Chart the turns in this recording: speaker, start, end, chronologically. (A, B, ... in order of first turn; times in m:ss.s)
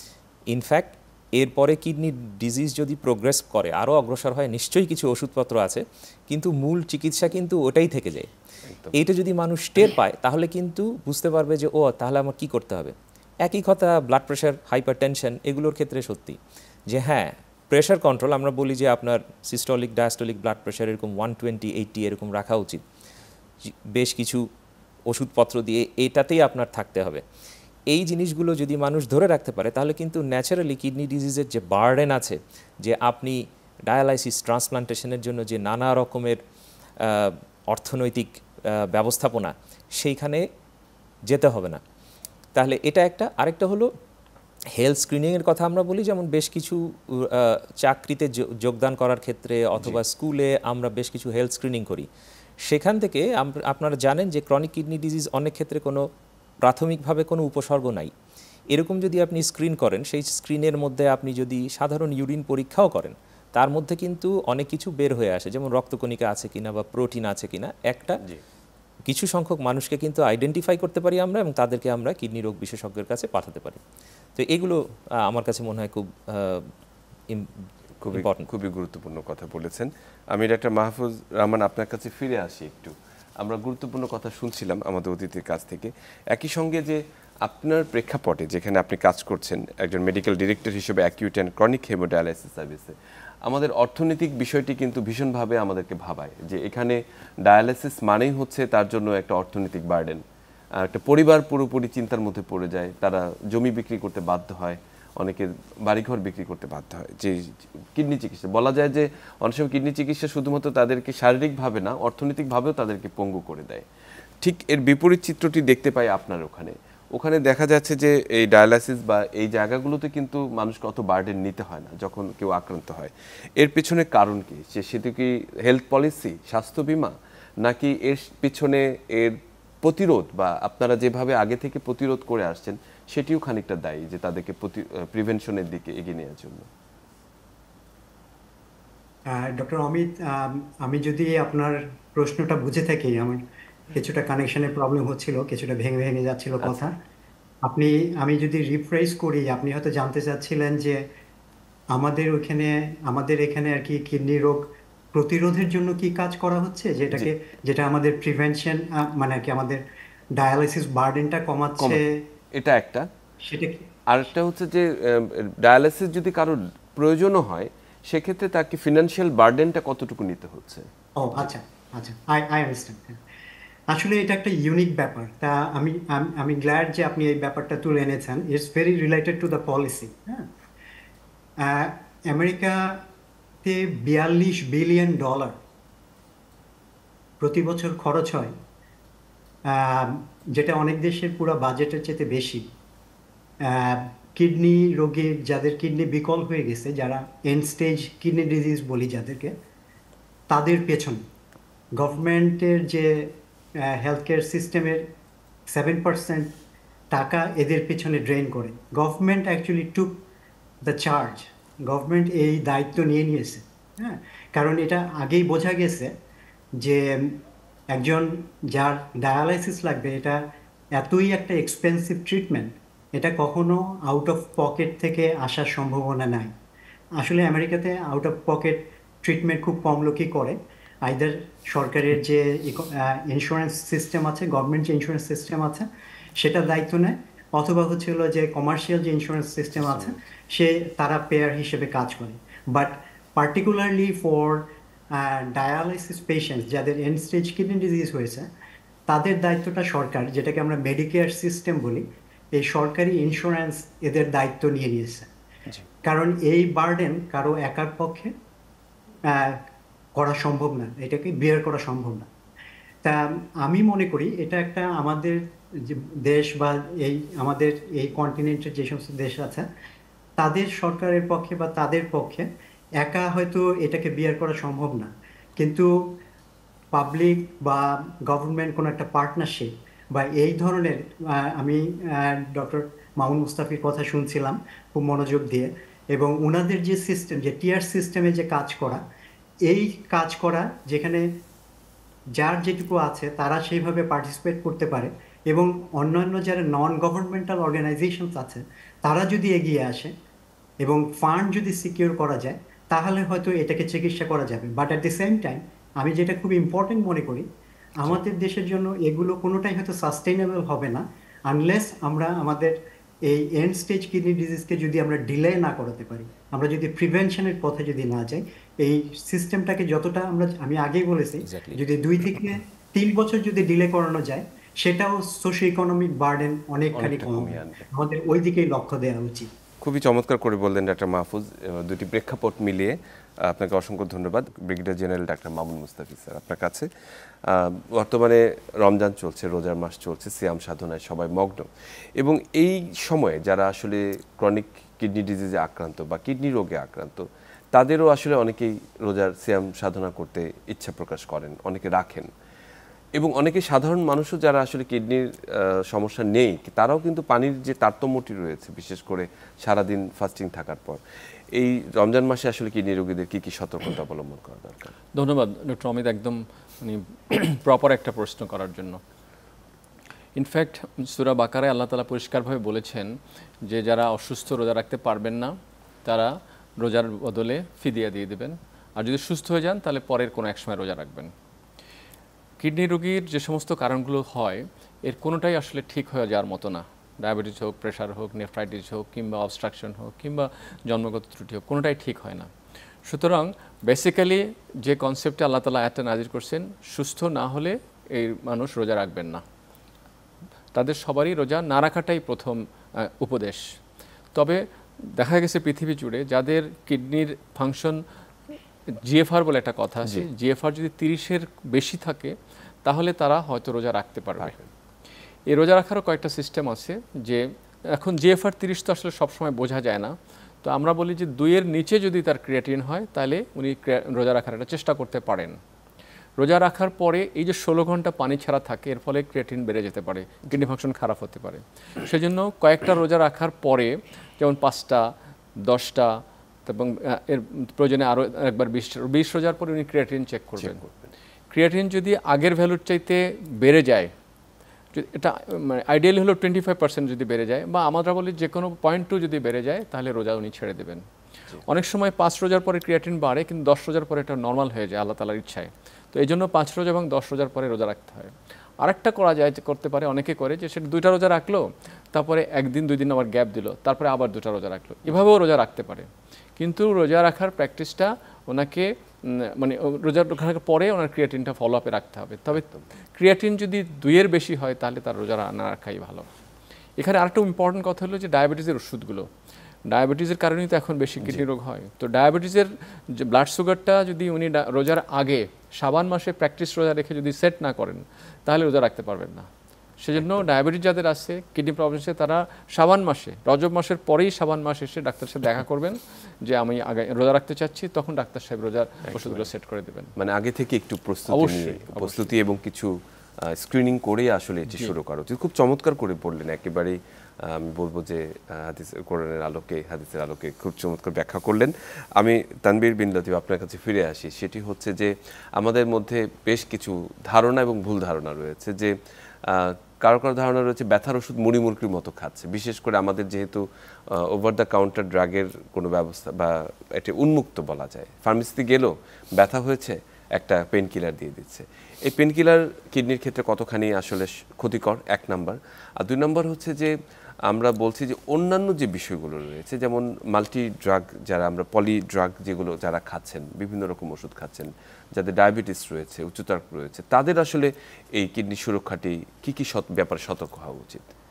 0:00.5-0:08.3 A
0:08.7-0:08.9 B
0:08.9-0:16.4 A
0:16.9-0:22.8 A
0:23.6-0:24.4 A
0:25.1-0:27.2 A
0:27.9-0:36.4 A
0:37.0-0:40.4 A
0:41.3-0:41.8 A
0:42.5-0:43.9 A
0:44.8-0:52.1 A
0:52.6-0:56.1 A
0:56.6-0:58.1 A
0:58.7-1:08.2 A
1:09.1-1:13.8 A
1:14.4-1:16.7 A
1:17.3-1:18.5 A
1:18.0-1:40.2 B
1:40.8-1:53.8 B
1:54.4-2:16.7 B
2:19.3-2:23.4 C
2:23.9-2:26.9 C
2:27.6-2:31.0 C
2:31.9-2:39.8 C
2:40.3-2:42.2 C
2:42.5-2:43.1 B
2:43.4-2:43.8 C
2:44.1-2:51.5 B
2:51.2-2:53.2 C
2:53.9-3:00.5 C
3:01.6-3:03.0 C
3:03.6-3:05.6 C
3:07.4-3:08.5 C
3:09.7-3:12.7 C
3:13.6-3:19.5 C
3:20.5-3:21.2 C
3:22.0-3:25.1 C
3:25.7-3:26.5 C
3:27.1-3:30.2 C
3:30.8-3:36.1 C
3:36.8-3:37.4 C
3:37.9-3:40.4 C
3:40.9-3:46.5 C
3:47.2-3:55.9 C
3:56.4-4:08.5 C
3:59.8-4:00.1 B
4:09.1-4:15.3 C
4:16.0-4:18.3 C
4:19.2-4:19.6 C
4:20.1-4:22.3 C
4:23.0-4:29.6 C
4:30.4-4:32.5 C
4:33.0-4:36.1 C
4:36.9-4:49.0 C
4:49.6-4:51.3 C
4:52.4-5:00.1 C
5:00.8-5:07.5 C
5:08.0-5:29.5 C
5:21.4-5:21.8 A
5:26.9-5:27.9 B
5:29.8-5:36.9 B
5:37.5-5:52.3 B
5:53.2-6:01.0 B
6:01.5-6:04.9 B
6:05.1-6:09.0 D
6:10.4-6:21.3 D
6:22.6-6:32.5 D
6:33.0-6:39.4 D
6:40.7-6:43.6 D
6:44.3-6:48.0 D
6:48.9-6:54.6 D
6:54.4-6:54.7 B
6:55.5-7:05.6 D
7:06.4-7:15.1 D
7:15.6-7:20.8 D
7:20.6-7:21.1 B
7:21.5-7:24.1 D
7:24.9-7:31.0 D
7:31.6-7:56.3 D
7:52.5-7:52.8 B
7:57.0-7:59.3 D
7:59.9-8:09.5 D
8:10.0-8:20.1 D
8:10.2-8:10.4 B
8:19.1-8:19.5 B
8:20.2-8:38.9 B
8:21.3-8:22.4 D
8:39.5-8:56.9 B
8:57.5-9:11.1 B